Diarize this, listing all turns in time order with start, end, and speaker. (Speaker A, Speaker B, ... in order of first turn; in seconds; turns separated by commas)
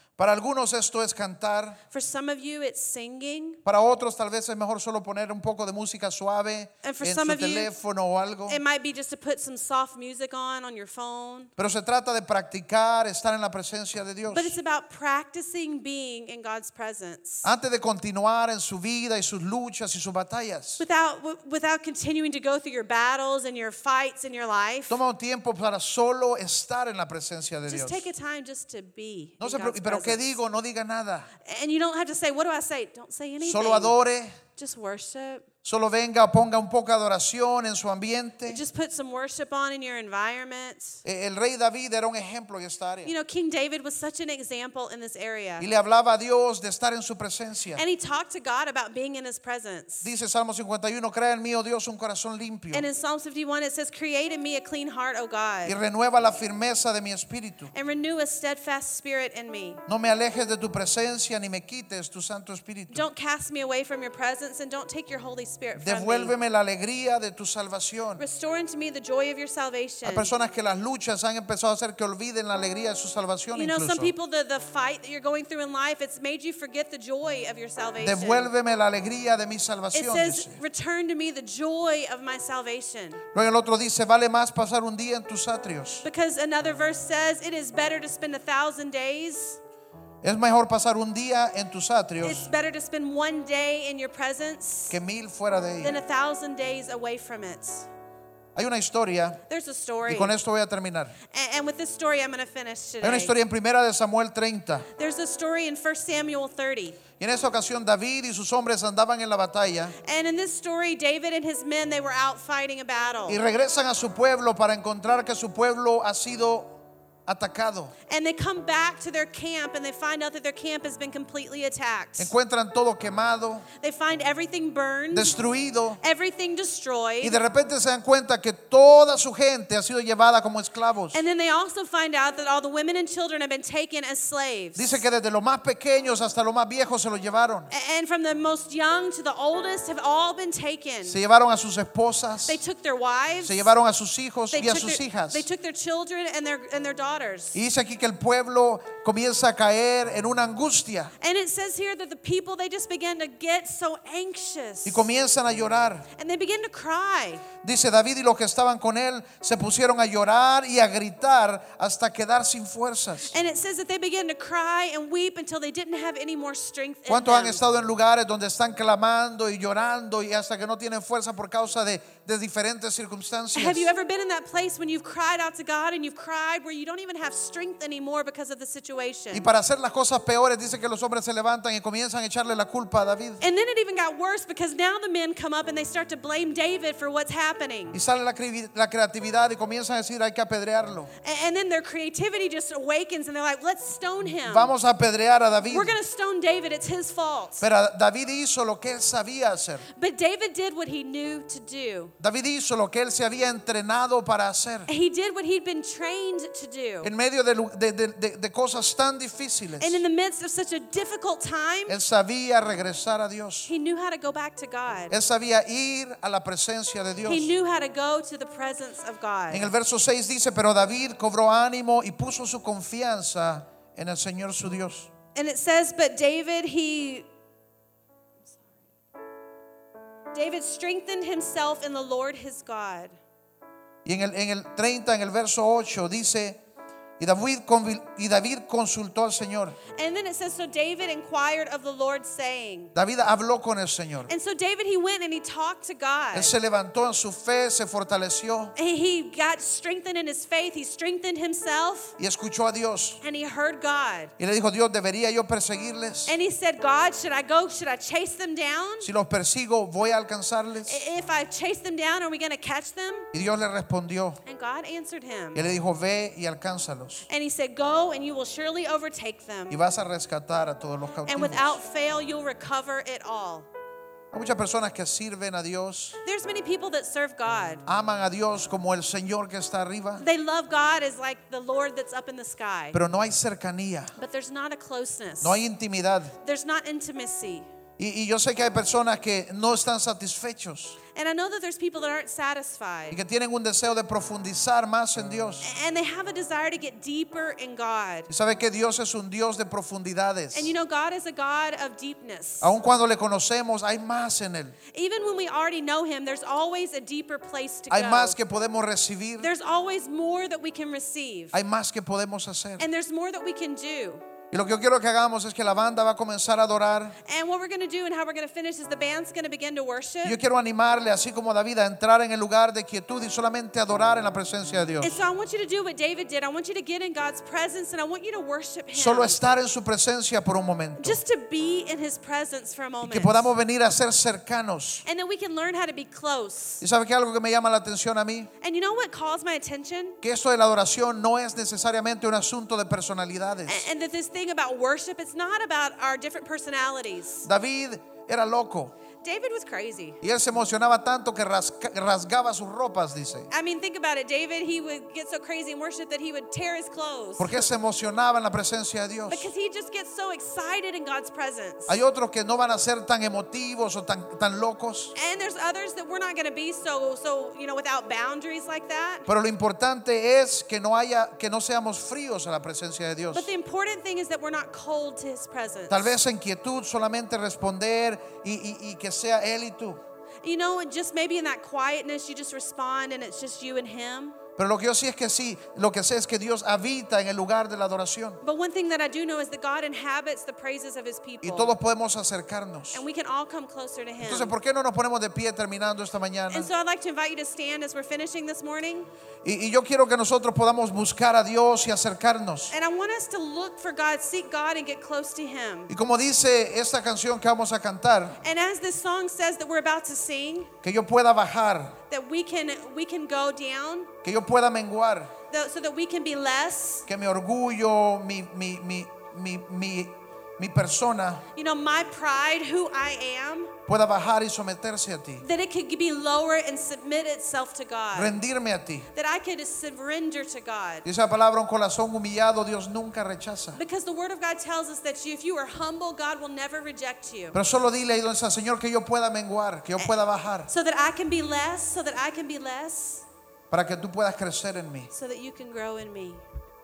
Speaker A: 0.2-1.8, Speaker B: 1.9-3.6, Speaker A: 3.6-8.6, Speaker B: 6.8-7.7, Speaker B: 8.5-11.5, Speaker A: 11.6-14.5, Speaker B: 14.3-17.5, Speaker A: 17.4-20.8, Speaker B: 20.8-25.0, Speaker A: 24.9-28.1, Speaker B: 27.7-30.4, Speaker A: 29.4-31.3, Speaker B: 31.4-34.0, Speaker A: 33.4-34.4, Speaker B: 34.5-35.4, Speaker A: 35.6-38.6, Speaker B: 38.5-41.0, Speaker A: 41.0-43.1, Speaker B: 43.0-45.6, Speaker A: 45.6-47.8, Speaker B: 47.7-50.1, Speaker A: 50.0-52.9, Speaker B: 52.7-55.7, Speaker A: 55.6-57.7, Speaker B: 57.7-59.8, Speaker A: 59.9-63.1, Speaker B: 62.9-66.3, Speaker A: 65.8-68.2, Speaker B: 68.2-70.3, Speaker A: 70.0-74.1, Speaker B: 73.5-78.5, Speaker A: 78.0-80.6, Speaker B: 79.9-83.2, Speaker A: 83.3-86.0, Speaker B: 86.0-89.6, Speaker A: 90.2-92.5, Speaker B: 92.2-95.0, Speaker A: 94.9-95.9, Speaker B: 95.8-97.9, Speaker A: 98.5-99.4, Speaker B: 99.5-100.3, Speaker A: 100.0-101.2, Speaker B: 101.3-103.3, Speaker A: 103.0-104.9, Speaker B: 104.9-107.0, Speaker A: 107.2-110.0, Speaker B: 110.0-113.4, Speaker A: 113.3-117.9, Speaker B: 118.1-122.3, Speaker A: 122.2-123.7, Speaker B: 123.8-125.4, Speaker A: 125.1-126.0, Speaker B: 126.0-127.4, Speaker A: 127.2-131.2, Speaker B: 131.1-135.0, Speaker A: 134.8-137.7, Speaker B: 137.7-141.2, Speaker A: 141.1-142.6, Speaker B: 142.4-143.7, Speaker A: 143.4-145.5, Speaker B: 144.5-147.6, Speaker A: 147.5-151.1, Speaker B: 151.2-155.1, Speaker A: 154.8-156.1, Speaker B: 156.1-157.4, Speaker A: 157.6-163.3, Speaker B: 163.3-167.6, Speaker A: 167.1-173.9, Speaker B: 173.5-179.4, Speaker A: 179.3-183.4, Speaker B: 183.4-188.0, Speaker A: 187.9-191.1, Speaker B: 191.2-194.7, Speaker A: 194.4-195.9, Speaker B: 195.6-197.6, Speaker A: 197.6-199.8, Speaker B: 199.9-202.1, Speaker A: 202.2-204.9, Speaker B: 204.9-207.1, Speaker A: 207.0-210.0, Speaker B: 209.8-211.9, Speaker A: 211.9-213.7, Speaker B: 213.7-215.1, Speaker A: 215.1-217.5, Speaker B: 217.2-219.7, Speaker A: 219.5-225.1, Speaker B: 225.3-227.2, Speaker B: 230.3-233.2, Speaker A: 234.0-236.6, Speaker A: 237.2-239.8, Speaker B: 239.9-242.9, Speaker A: 242.9-244.3, Speaker B: 244.3-246.5, Speaker A: 246.3-248.7, Speaker B: 248.7-252.1, Speaker A: 252.2-253.2, Speaker B: 253.2-254.3, Speaker A: 254.4-256.3, Speaker B: 256.3-259.1, Speaker A: 259.0-261.0, Speaker B: 260.9-263.3, Speaker A: 263.3-264.4, Speaker B: 264.4-265.6, Speaker A: 265.5-267.2, Speaker B: 267.3-269.8, Speaker A: 269.7-271.8, Speaker B: 271.2-273.7, Speaker A: 274.3-276.2, Speaker B: 276.2-277.8, Speaker A: 277.9-280.2, Speaker B: 280.2-283.0, Speaker A: 282.9-284.1, Speaker B: 284.1-285.6, Speaker A: 285.4-286.4, Speaker B: 286.4-287.7, Speaker A: 288.0-291.0, Speaker B: 291.1-293.2, Speaker A: 293.1-295.7, Speaker B: 295.6-298.3, Speaker A: 298.3-300.7, Speaker B: 300.5-302.7, Speaker A: 302.6-304.8, Speaker B: 304.9-308.4, Speaker A: 307.9-309.5, Speaker B: 309.4-311.5, Speaker A: 311.5-312.9, Speaker B: 312.8-314.2, Speaker A: 314.5-317.2, Speaker B: 317.2-320.4, Speaker A: 320.2-325.2, Speaker B: 325.0-329.4, Speaker A: 328.9-331.2, Speaker B: 331.0-333.5, Speaker A: 333.0-335.0, Speaker B: 335.0-336.8, Speaker A: 336.8-338.5, Speaker B: 338.6-340.2, Speaker A: 340.2-343.8, Speaker B: 343.7-347.5, Speaker A: 347.4-348.9, Speaker B: 349.2-350.2, Speaker A: 350.2-353.5, Speaker B: 353.5-357.7, Speaker A: 357.4-359.5, Speaker B: 359.3-361.9, Speaker A: 361.9-365.1, Speaker B: 365.1-369.3, Speaker A: 369.3-373.5, Speaker B: 373.3-376.1, Speaker A: 375.9-380.0, Speaker B: 380.4-384.4, Speaker A: 384.6-388.4, Speaker B: 388.4-391.7, Speaker A: 391.4-393.0, Speaker B: 392.9-394.5, Speaker A: 394.2-396.7, Speaker B: 396.5-399.1, Speaker A: 399.4-402.7, Speaker B: 402.7-405.9, Speaker A: 405.9-408.4, Speaker B: 408.4-410.7, Speaker A: 410.8-412.0, Speaker B: 412.1-414.1, Speaker A: 414.2-415.3, Speaker B: 415.5-417.1, Speaker A: 417.1-421.5, Speaker B: 421.5-423.7, Speaker A: 423.9-425.4, Speaker B: 425.4-428.4, Speaker A: 428.1-429.1, Speaker B: 429.1-431.0, Speaker A: 431.0-433.8, Speaker B: 433.8-437.6, Speaker A: 437.5-440.7, Speaker B: 440.0-443.2, Speaker A: 443.7-445.1, Speaker B: 445.1-446.4